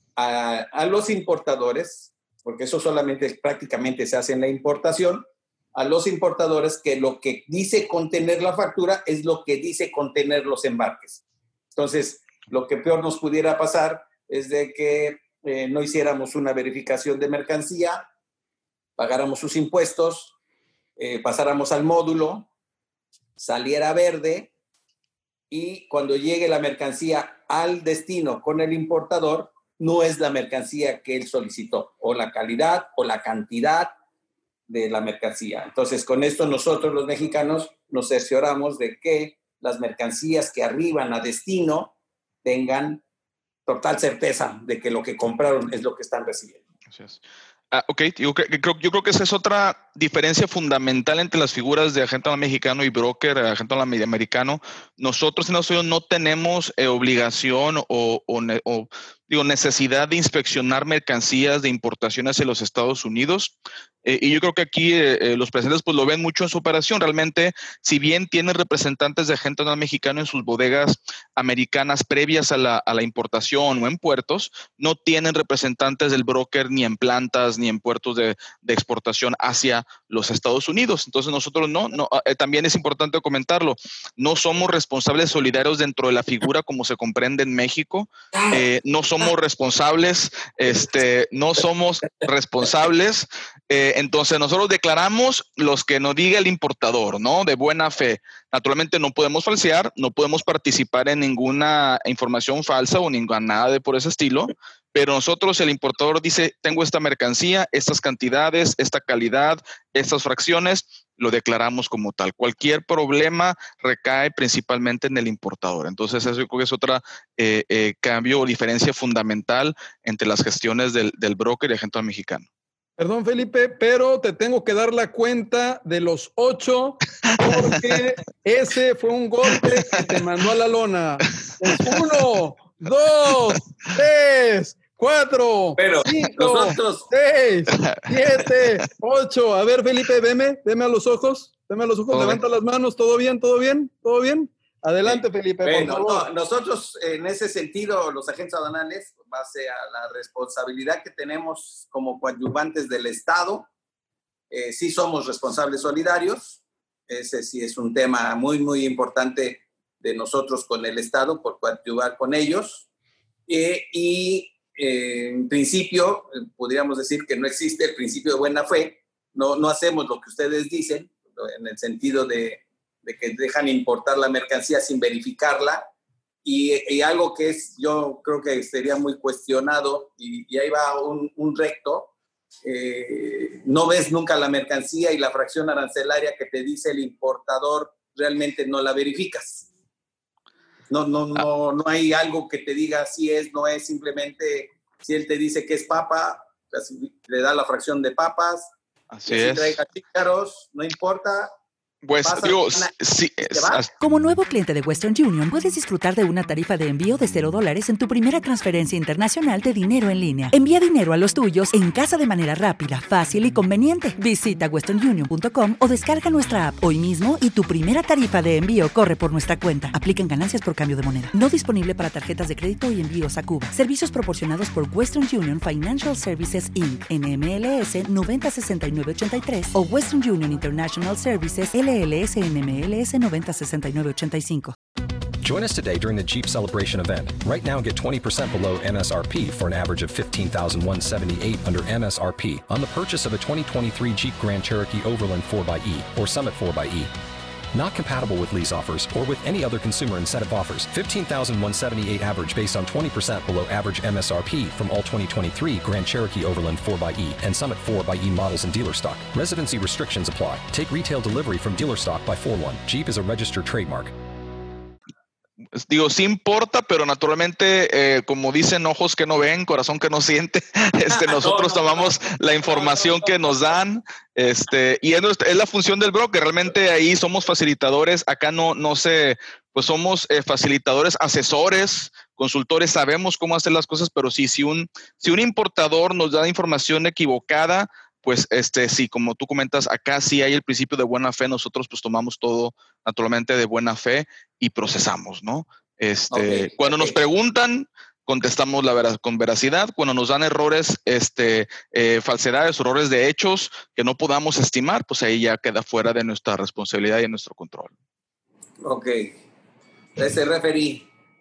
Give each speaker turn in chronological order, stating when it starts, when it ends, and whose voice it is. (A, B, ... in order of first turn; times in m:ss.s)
0:00.2-0:11.2 A
0:11.7-0:18.0 A
0:19.0-0:20.3 A
0:21.0-0:22.5 A
0:23.4-0:24.5 A
0:25.5-0:33.9 A
0:34.7-0:43.0 A
0:43.6-0:46.6 A
0:46.9-0:47.2 B
0:47.7-2:02.4 B
2:03.0-2:26.3 C
2:15.8-2:17.1 A
2:22.1-2:22.4 B
2:25.1-2:33.7 A
2:34.5-2:42.9 A
2:43.5-2:55.9 A
2:56.4-3:02.1 A
3:02.6-3:09.6 A
3:10.9-3:18.7 A
3:19.1-3:19.8 B
3:19.3-3:21.5 A
3:22.0-3:23.9 B
3:22.2-3:22.9 A
3:23.5-3:23.8 A
3:24.0-3:54.7 D
3:55.4-4:07.1 E
4:07.7-4:24.1 E
4:25.8-5:07.9 B
4:31.1-4:33.6 A
4:56.3-4:57.2 A
5:08.8-5:09.4 A
5:10.2-5:11.1 A